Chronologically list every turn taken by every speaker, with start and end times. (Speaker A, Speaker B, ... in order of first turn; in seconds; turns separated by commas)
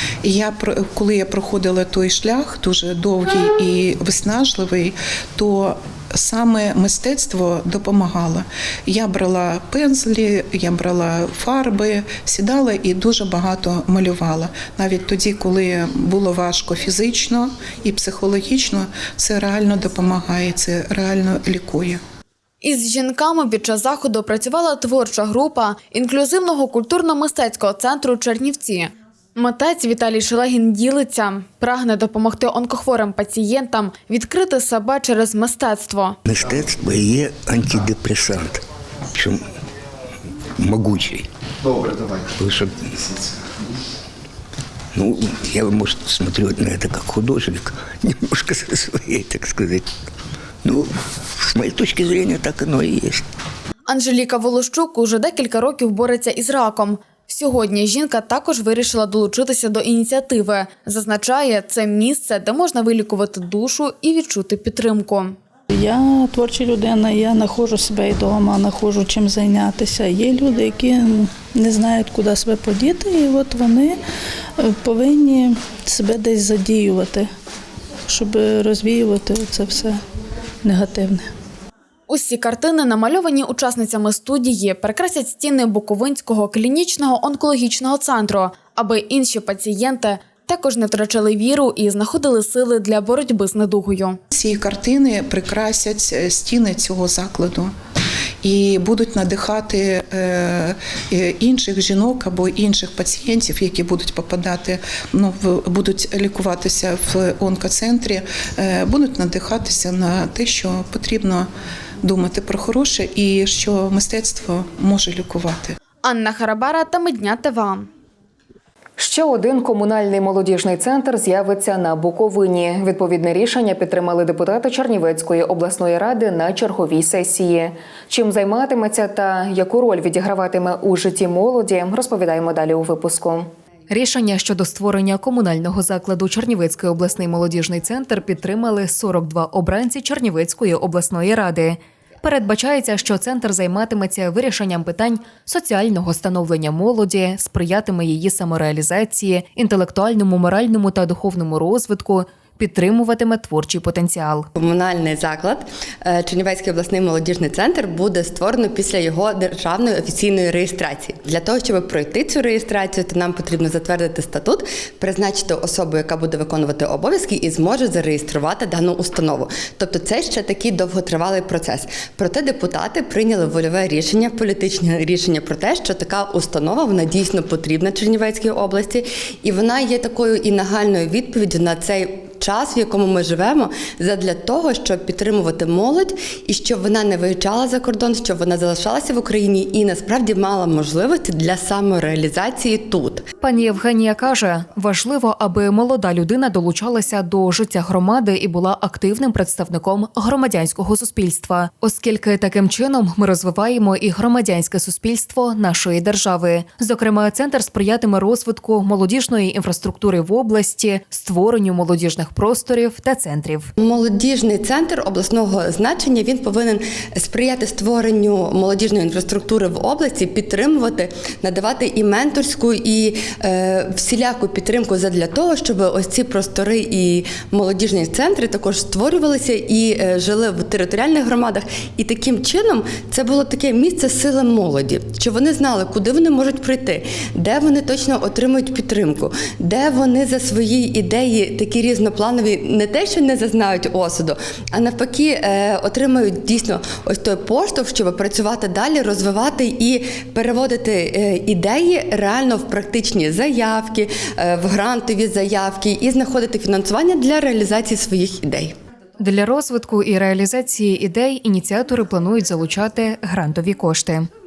Speaker A: 0.2-22.0, Speaker B: 22.6-36.2, Speaker C: 36.3-38.6, Speaker C: 39.1-39.4, Speaker C: 40.6-41.3, Speaker C: 42.3-43.0, Speaker C: 44.9-49.9, Speaker C: 50.6-53.2, Speaker B: 53.9-65.3, Speaker D: 65.7-74.0, Speaker D: 74.6-77.3, Speaker D: 78.1-80.0, Speaker D: 80.6-81.2, Speaker B: 82.1-94.2, Speaker A: 94.3-97.7, Speaker A: 98.4-111.5, Speaker A: 112.0-115.8, Speaker B: 116.0-117.9, Speaker E: 119.0-154.5, Speaker F: 154.6-193.2, Speaker E: 193.4-213.7, Speaker F: 213.8-258.7, Speaker E: 259.2-264.3